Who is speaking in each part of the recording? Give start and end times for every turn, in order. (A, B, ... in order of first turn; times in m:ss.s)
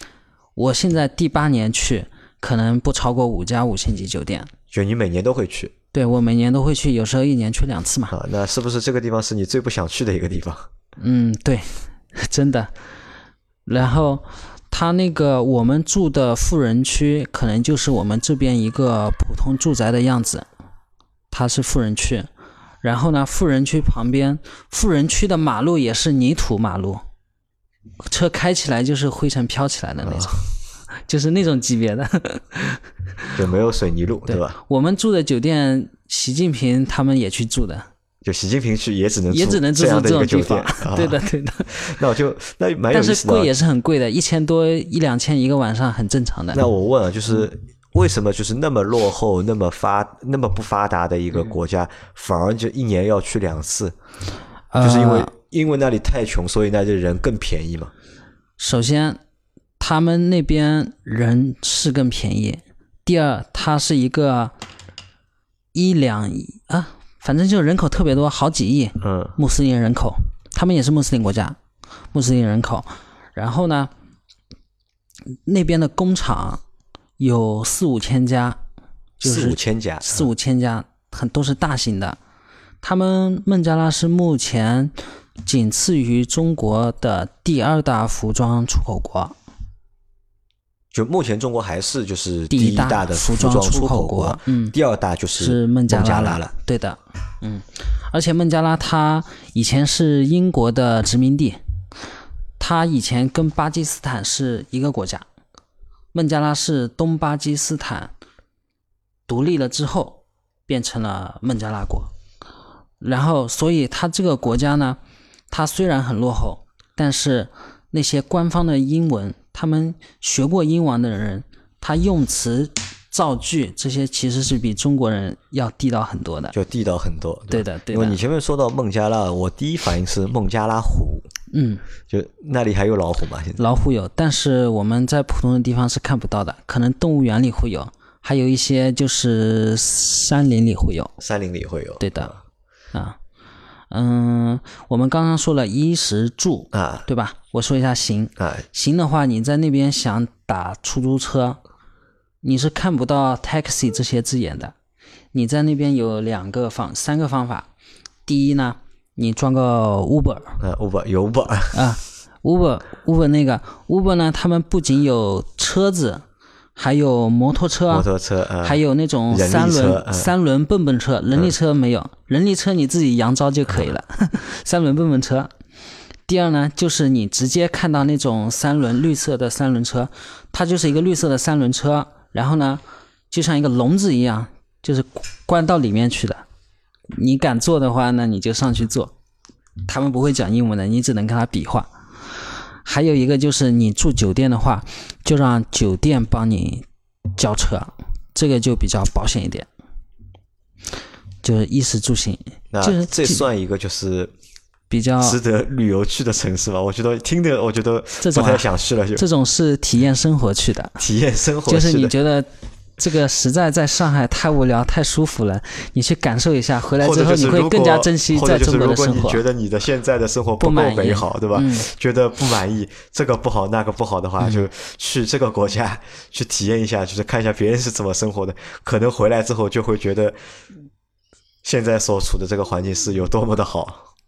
0:00.6-0:04.5 A
0:04.7-0:05.7 B
0:05.9-0:08.2 A
0:08.1-0:10.7 B
0:11.0-0:12.7 A
0:13.7-0:20.5 A
0:21.3-0:22.3 A
0:22.8-0:27.0 A
0:28.0-0:30.5 A
0:30.0-0:30.4 B
0:31.1-0:33.4 A
0:33.4-0:34.6 B
0:34.3-0:37.9 A
0:38.2-0:43.5 B
0:39.3-0:41.9 A
0:42.9-0:46.6 A
0:46.5-0:54.0 B
0:54.7-0:55.3 A
0:54.8-0:57.9 B
0:58.6-0:59.2 A
0:59.8-1:04.5 A
1:05.7-1:11.6 A
1:09.0-1:09.4 B
1:12.1-1:13.9 A
1:15.5-1:16.6 A
1:17.2-1:18.6 A
1:19.2-1:22.2 A
1:19.2-1:20.3 B
1:22.8-1:29.4 A
1:30.9-1:36.5 B
1:32.5-1:34.8 A
1:35.4-1:41.6 A
1:42.6-1:45.2 A
1:46.1-1:48.1 A
1:49.3-1:52.1 A
1:53.0-1:55.0 A
1:55.5-2:06.6 A
2:06.5-2:11.3 B
2:07.5-2:08.2 A
2:11.5-2:11.8 A
2:12.1-2:13.7 B
2:13.6-2:21.1 A
2:21.2-2:22.4 B
2:22.0-2:22.3 A
2:23.9-2:31.6 A
2:26.7-2:27.1 B
2:28.4-2:28.6 B
2:32.4-2:34.8 A
2:35.3-2:37.7 A
2:38.3-2:40.6 A
2:40.6-2:41.9 B
2:41.7-2:46.2 A
2:46.8-2:48.1 A
2:47.9-2:50.3 B
2:48.6-2:55.5 A
2:56.3-3:06.4 A
3:07.1-3:09.1 A
3:09.9-3:11.9 A
3:12.8-3:16.9 A
3:17.4-3:19.7 A
3:21.4-3:23.4 A
3:22.7-3:24.3 B
3:24.9-3:25.4 A
3:25.2-3:29.2 B
3:28.2-3:31.0 A
3:31.0-3:32.1 B
3:31.7-3:39.4 A
3:37.0-3:50.4 B
3:40.6-3:41.9 A
3:44.4-3:44.7 A
3:51.6-3:54.0 B